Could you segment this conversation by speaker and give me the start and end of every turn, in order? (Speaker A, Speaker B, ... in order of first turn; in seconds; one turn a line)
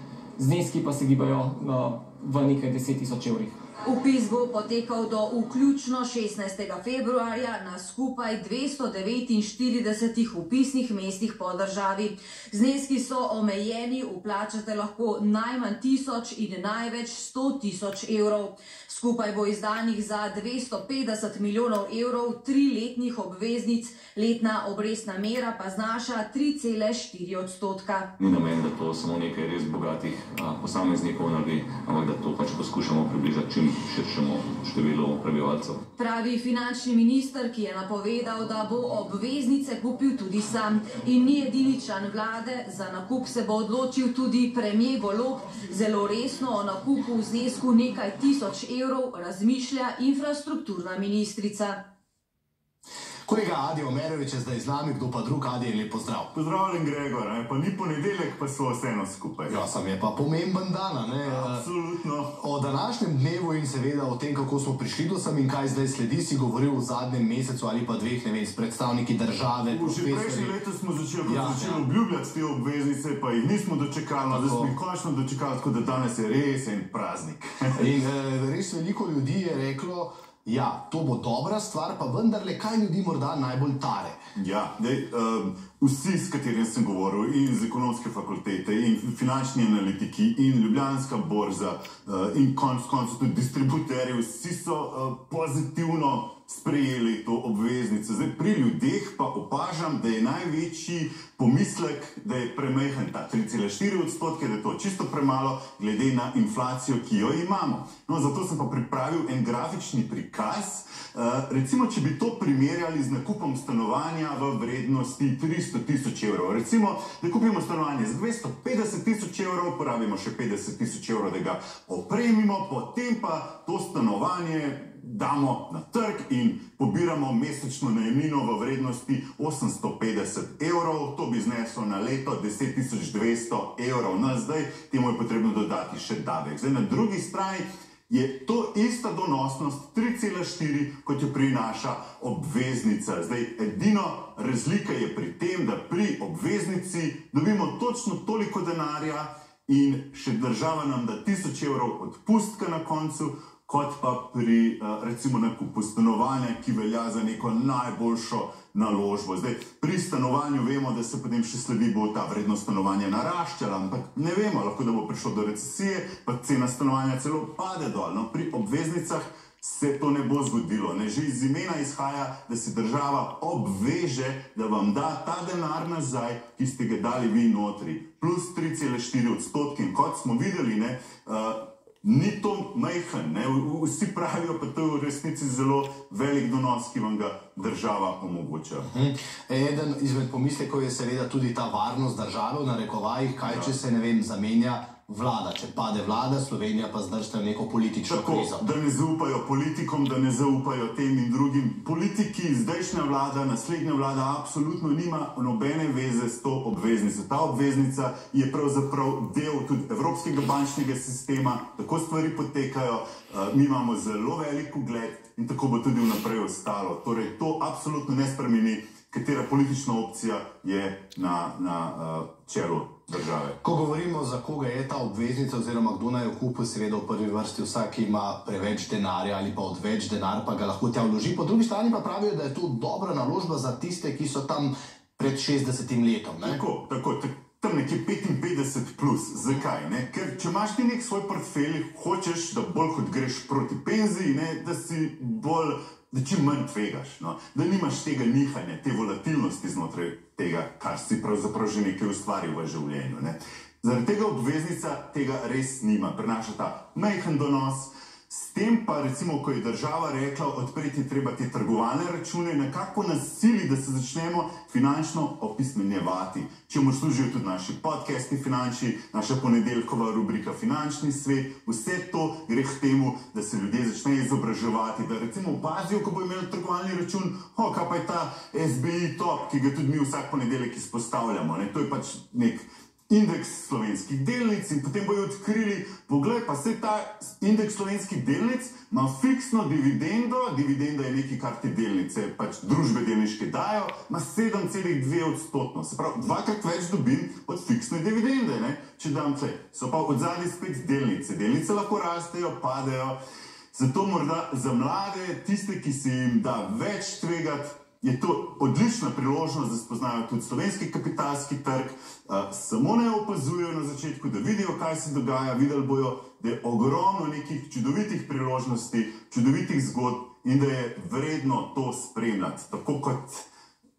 Speaker A: 0.4-3.5
Speaker B: 3.8-28.1
Speaker C: 28.2-35.8
Speaker B: 36.0-51.8
Speaker D: 53.3-56.3
Speaker E: 56.3-59.6
Speaker D: 59.5-61.7
Speaker E: 61.2-62.3
Speaker D: 62.3-70.5
Speaker E: 69.7-77.9
Speaker D: 71.2-71.9
Speaker D: 74.2-74.7
Speaker D: 77.8-84.2
Speaker E: 84.3-188.9
Speaker D: 188.9-198.7
Speaker E: 193.4-193.8
Speaker E: 198.1-223.6
Speaker D: 223.6-236.6
Speaker E: 236.4-303.2
Speaker E: 303.7-323.5